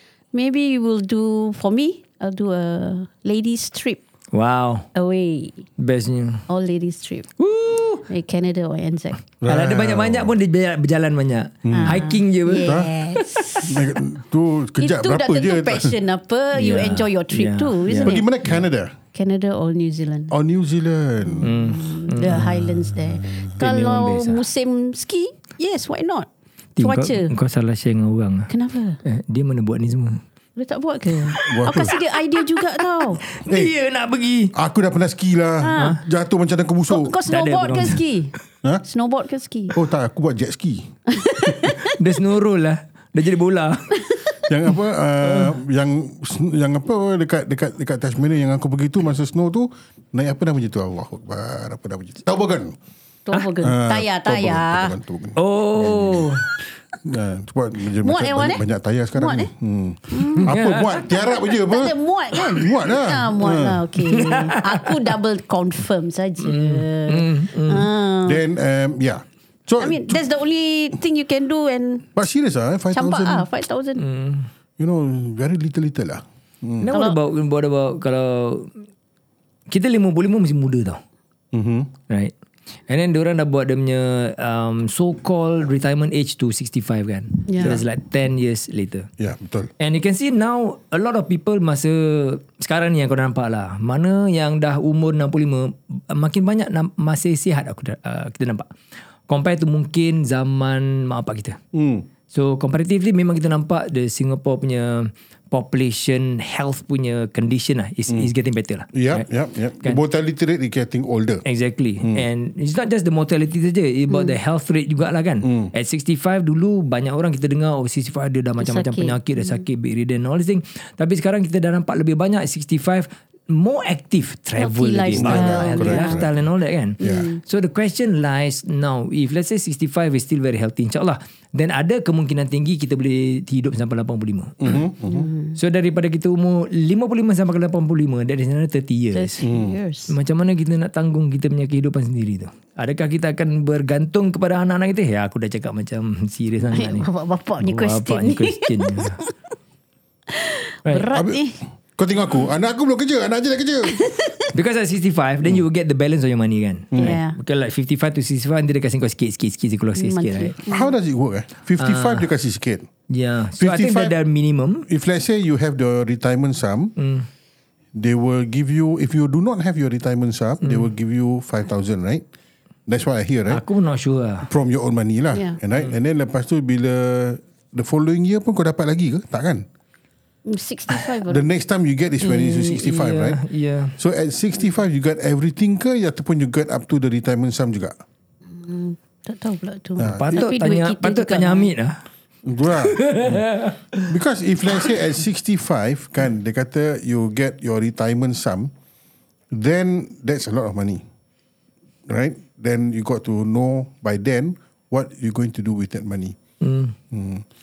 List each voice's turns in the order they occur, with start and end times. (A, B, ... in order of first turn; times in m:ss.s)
0:00.3-0:04.0 A
0:04.3-0:04.9 B
0:04.9-0:05.7 A
0:05.8-0:06.4 B
0:06.5-0:07.3 A
0:07.4-0:08.0 B
0:08.1-0:09.2 A
0:09.4-0:10.3 C
0:09.4-0:12.9 B
0:11.6-0:12.0 C
0:11.7-0:13.8 A
0:13.6-0:15.9 C
0:14.8-0:18.2 A
0:16.5-0:18.2 B
0:18.0-0:18.9 C
0:19.1-0:20.4 A
0:20.3-0:21.6 C
0:21.2-0:26.3 A
0:21.4-0:22.6 B
0:22.2-0:23.5 C
0:23.5-0:24.5 B
0:26.8-0:28.5 B
0:26.8-0:27.3 A
0:28.5-0:29.0 A
0:29.0-0:30.2 B
0:30.6-0:33.2 A
0:31.4-0:31.9 C
0:33.3-0:34.5 B
0:33.5-0:33.7 C
0:34.5-0:37.2 C
0:35.6-0:36.0 A
0:36.9-0:38.3 A
0:37.3-0:38.0 B
0:38.8-0:39.8 A
0:39.7-0:41.6 C
0:41.1-0:41.9 A
0:41.7-0:44.0 B
0:44.5-0:52.8 C
0:45.2-0:45.5 B
0:53.3-0:55.0 A
0:53.6-0:56.4 C
0:55.4-0:56.5 B
0:57.0-1:01.9 C
0:58.0-0:58.6 A
0:59.2-0:59.5 A
1:00.1-1:00.5 A
1:00.4-1:01.0 B
1:01.3-1:08.4 A
1:02.5-1:03.8 C
1:04.0-1:05.1 B
1:06.4-1:07.9 B
1:08.2-1:10.2 C
1:09.8-1:12.1 A
1:12.2-1:13.5 C
1:12.9-1:14.0 A
1:14.0-1:14.5 B
1:14.8-1:16.9 C
1:16.8-1:18.7 B
1:16.9-1:17.2 A
1:19.7-1:21.0 B
1:21.5-1:21.9 C
1:22.9-1:29.1 B
1:27.5-1:27.8 A
1:29.2-1:29.7 C
1:29.8-1:38.7 B
1:39.3-1:41.6 B
1:41.7-1:42.1 C
1:42.3-1:49.2 B
1:48.9-1:51.4 C
1:51.4-2:14.8 B
1:54.1-1:54.4 A
1:55.4-1:55.7 C
1:58.6-1:59.6 A
2:04.6-2:06.2 A
2:05.1-2:06.4 C
2:07.0-2:07.3 C
2:07.0-2:07.4 A
2:14.6-2:15.3 C
2:15.1-2:15.6 A
2:15.6-2:19.4 B
2:19.1-2:20.1 A
2:19.4-2:19.8 C
2:20.1-2:27.1 B
2:26.7-2:29.3 A
2:27.6-2:29.2 B
2:30.3-2:31.6 A
2:31.1-2:31.4 C
2:32.0-2:34.0 C
2:33.9-2:34.5 A
2:34.5-2:40.6 B
2:37.0-2:37.4 A
2:40.0-2:40.9 A
2:40.7-2:42.9 C
2:41.8-2:42.3 B
2:43.1-2:44.9 B
2:43.6-2:44.2 C
2:44.9-2:46.9 C
2:47.0-2:47.3 B
2:47.9-2:52.2 C
2:50.6-2:50.9 B
2:52.9-2:53.6 C
2:53.5-2:54.5 B
2:54.5-2:59.7 C
2:55.3-2:55.6 A
3:00.5-3:01.5 A
3:01.2-3:03.4 C
3:02.2-3:04.0 B
3:04.0-3:08.0 C
3:08.5-3:11.7 A
3:10.0-3:10.4 C
3:10.1-3:12.0 B
3:12.4-3:13.5 C
3:12.7-3:14.1 B
3:14.1-3:18.7 C
3:19.5-3:21.0 C
3:22.1-3:26.4 C
3:26.6-3:27.0 B
3:27.1-3:27.4 C